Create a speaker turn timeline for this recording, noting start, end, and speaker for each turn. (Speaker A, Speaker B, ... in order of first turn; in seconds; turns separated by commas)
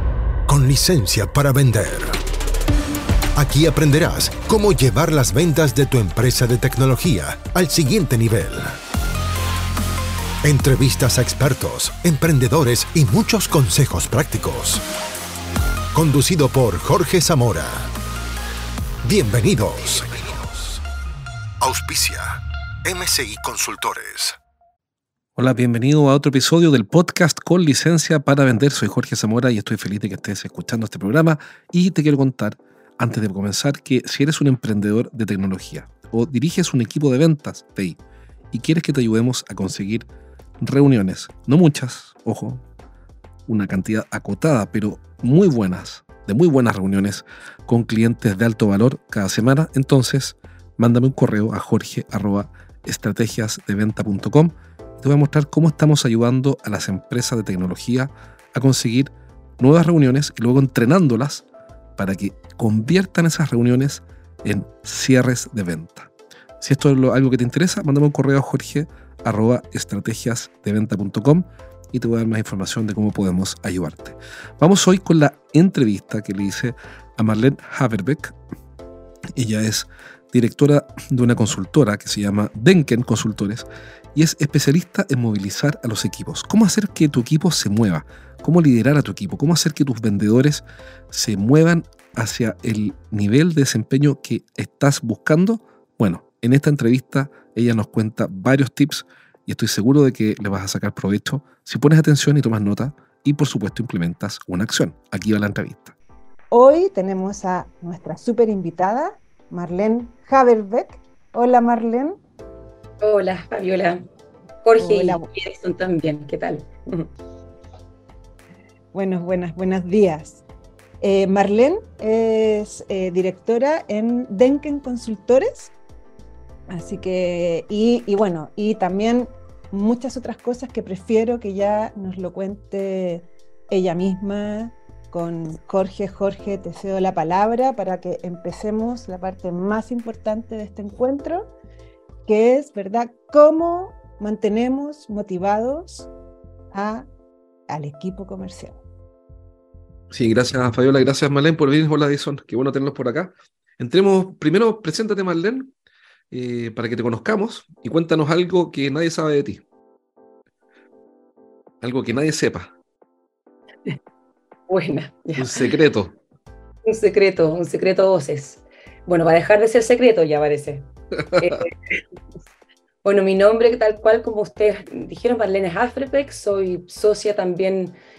Speaker A: 0.5-2.2, Speaker A: 3.4-8.8, Speaker A: 10.4-14.8, Speaker A: 15.9-17.9, Speaker A: 19.0-20.8, Speaker A: 21.6-24.4, Speaker B: 25.4-38.0, Speaker B: 38.5-40.1, Speaker B: 40.6-42.6, Speaker B: 43.5-61.5, Speaker B: 62.0-78.3, Speaker B: 79.3-106.0, Speaker C: 106.5-112.2, Speaker D: 113.0-114.0, Speaker D: 114.6-117.1, Speaker C: 114.8-115.3, Speaker C: 118.9-120.4, Speaker C: 121.0-125.7, Speaker C: 126.7-141.5, Speaker C: 142.3-146.1, Speaker C: 146.7-147.1, Speaker C: 147.7-148.8, Speaker B: 150.1-155.7, Speaker B: 156.3-159.6, Speaker B: 161.8-162.7, Speaker D: 164.7-165.7, Speaker B: 165.4-166.2, Speaker D: 166.9-172.0, Speaker D: 173.0-178.0